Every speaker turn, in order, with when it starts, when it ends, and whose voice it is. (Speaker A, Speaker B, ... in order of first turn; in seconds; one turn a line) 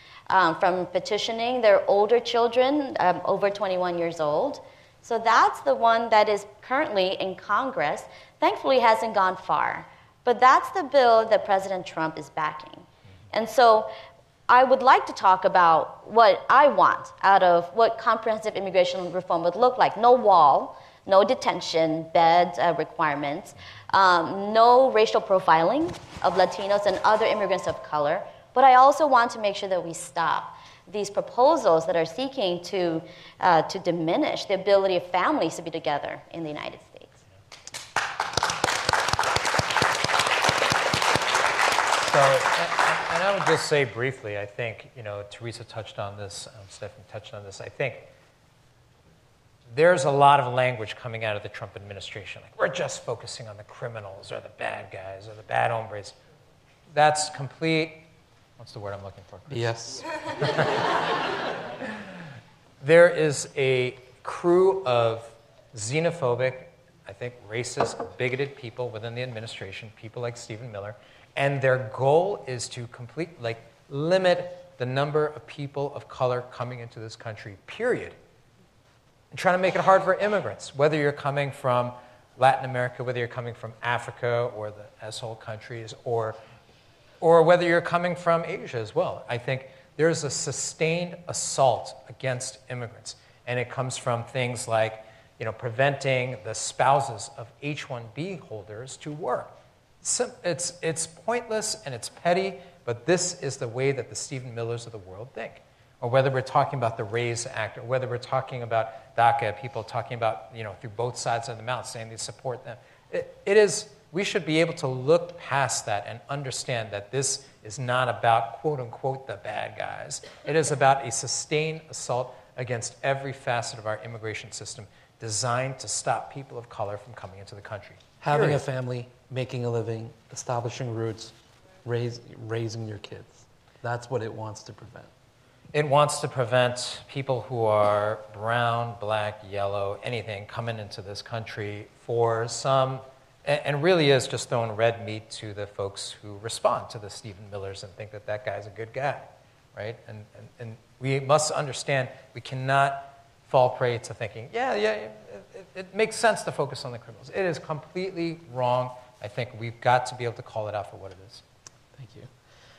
Speaker A: 0.3-13.9
Speaker A: 14.5-37.2
Speaker B: 42.1-48.1
Speaker B: 49.7-56.2
Speaker B: 56.9-60.9
Speaker C: 59.5-60.1
Speaker B: 62.8-78.2
Speaker B: 79.3-86.4
Speaker B: 87.2-128.6
Speaker C: 128.2-135.1
Speaker B: 135.7-161.4
Speaker C: 161.9-162.3